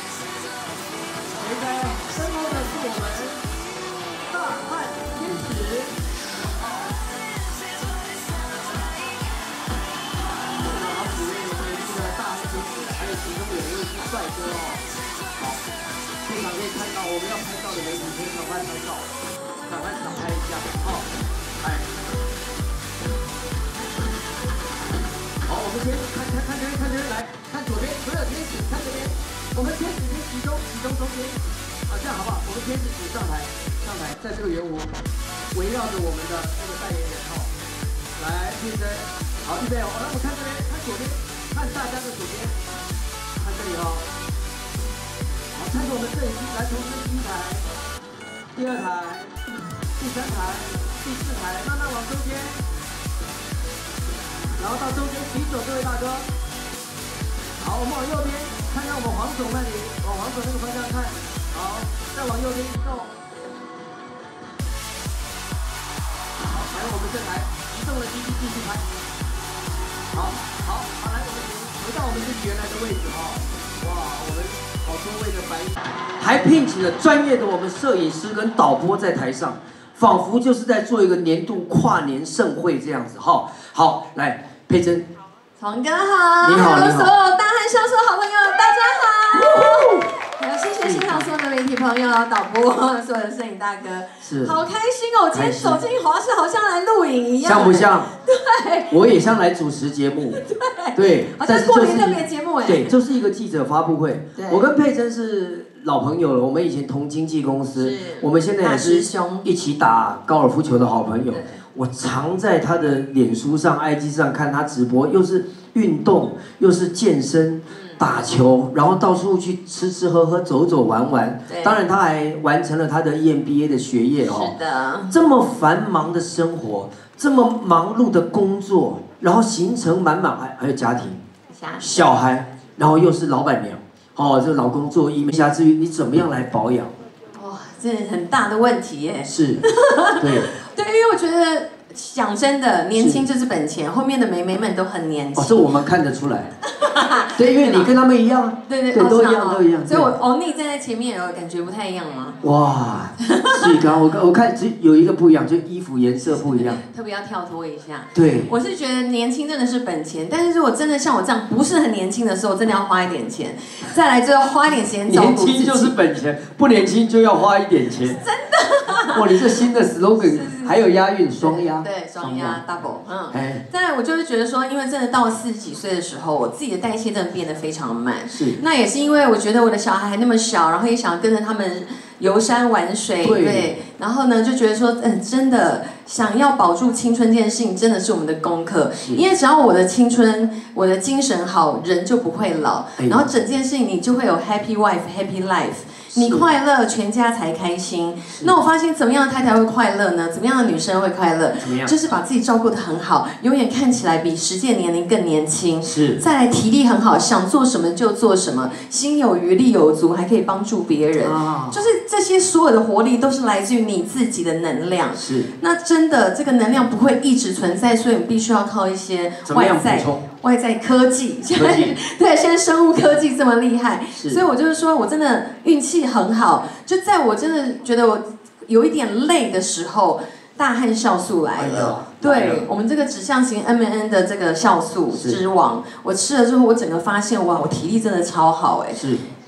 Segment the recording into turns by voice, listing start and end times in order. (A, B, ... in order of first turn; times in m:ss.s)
0:01.3-0:03.4 A
0:04.3-0:06.0 A
0:10.6-0:14.9 A
0:16.2-0:19.2 A
0:19.7-0:21.1 A
0:21.6-0:21.9 A
0:25.5-0:34.9 A
0:35.5-0:37.5 A
0:38.2-0:42.6 A
0:43.4-0:44.0 A
0:45.5-0:47.7 A
0:48.6-0:49.4 A
0:50.0-0:52.6 A
0:54.6-0:56.3 A
0:57.6-1:03.1 A
1:06.4-1:08.9 A
1:10.1-1:25.1 A
1:25.6-1:39.0 B
1:26.4-1:27.1 A
1:29.3-1:30.2 A
1:30.8-1:31.3 A
1:34.2-1:34.6 A
1:35.3-1:35.8 A
1:37.4-1:38.1 A
1:38.9-1:40.4 A
1:40.3-1:42.9 B
1:41.0-2:04.6 A
1:44.4-1:44.7 B
1:47.8-1:49.5 B
1:51.3-1:51.6 B
1:57.7-1:58.0 B
2:01.5-2:01.8 B
2:04.2-2:05.2 B
2:05.1-2:11.2 A
2:11.5-2:12.0 B
2:11.8-2:16.9 A
2:17.4-2:25.7 B
2:19.3-2:19.7 A
2:20.2-2:20.5 A
2:23.0-2:23.3 A
2:25.4-2:26.5 A
2:26.6-2:27.9 B
2:27.3-2:30.1 A
2:28.7-2:32.4 B
2:32.4-2:36.8 A
2:33.2-2:33.9 B
2:36.5-2:46.0 B
2:38.1-2:38.5 A
2:45.1-2:48.2 A
2:48.1-2:49.4 B
2:49.1-2:52.6 A
2:50.2-2:50.8 B
2:51.4-3:59.0 B
2:53.3-2:53.6 A
2:58.3-2:58.6 A
3:03.2-3:03.8 A
3:13.0-3:13.3 A
3:16.1-3:16.5 A
3:21.6-3:21.9 A
3:25.9-3:26.2 A
3:31.2-3:31.8 A
3:35.2-3:35.5 A
3:39.5-3:40.2 A
3:41.5-3:42.0 A
3:44.2-3:44.4 A
3:51.6-3:52.7 A
3:55.1-3:55.4 A
3:58.9-3:59.2 A